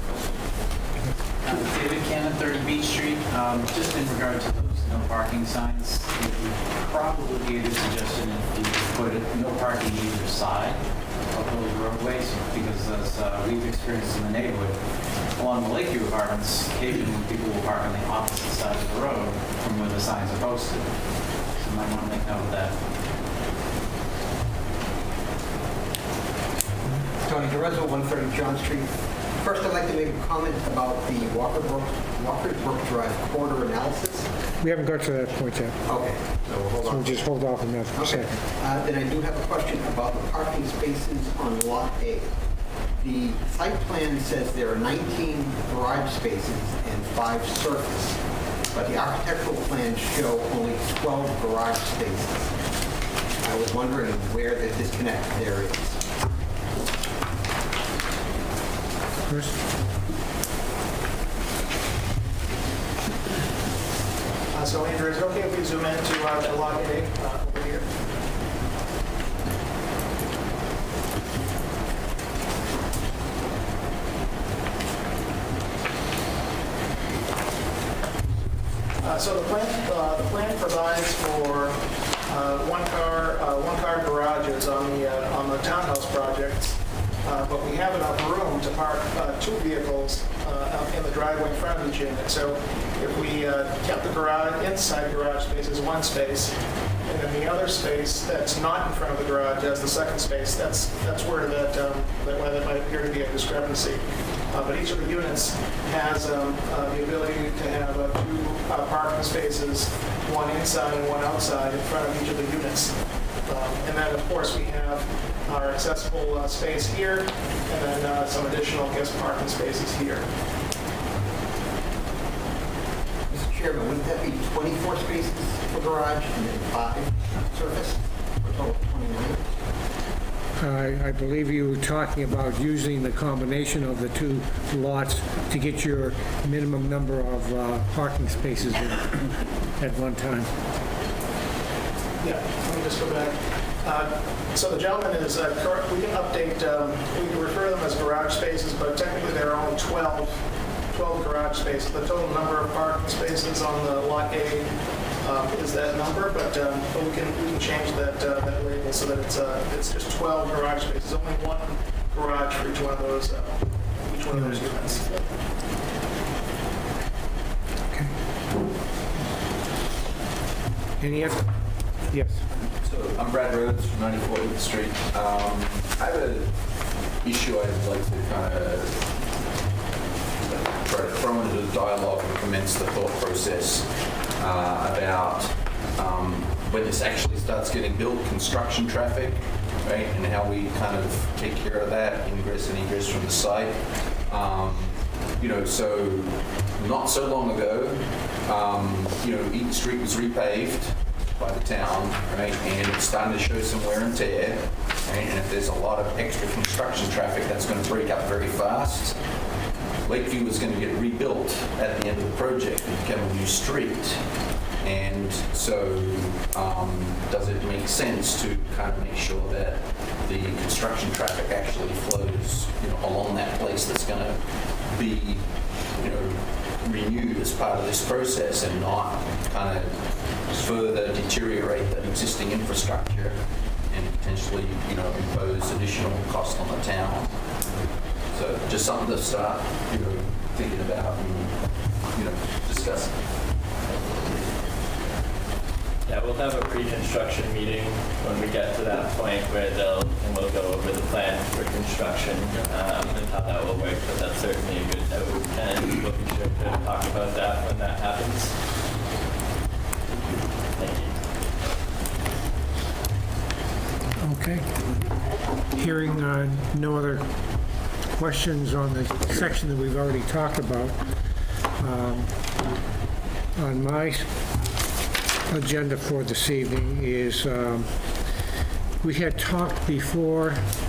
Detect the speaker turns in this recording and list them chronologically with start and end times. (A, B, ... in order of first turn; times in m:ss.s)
0:01.4-0:22.8 A
0:27.2-0:34.3 B
0:34.6-0:35.8 C
0:35.9-0:37.3 B
0:36.8-0:38.3 C
0:37.9-0:42.3 B
0:43.0-0:48.2 B
0:48.7-0:52.5 B
0:53.4-0:56.0 B
0:59.3-0:59.6 C
1:04.5-1:07.9 D
1:19.0-1:36.5 D
1:37.0-1:52.9 D
1:53.5-2:00.3 D
2:03.3-2:09.4 B
2:10.6-2:20.5 C
2:22.2-2:45.3 D
2:44.3-2:44.6 C
2:51.0-2:51.4 C
2:52.1-2:52.4 C
2:52.8-2:56.5 E
2:57.2-2:59.0 E
3:00.6-3:29.2 E
3:30.0-3:34.2 E
3:34.8-3:49.9 E
3:50.4-3:57.3 E
3:58.3-4:03.2 E
4:06.1-4:18.5 F
4:20.7-4:21.2 F
4:24.2-4:25.0 C
4:25.7-4:27.3 C
4:28.1-4:31.1 C
4:31.8-4:32.3 C
4:33.6-4:34.3 C
4:35.5-4:37.9 C
4:39.0-4:40.7 C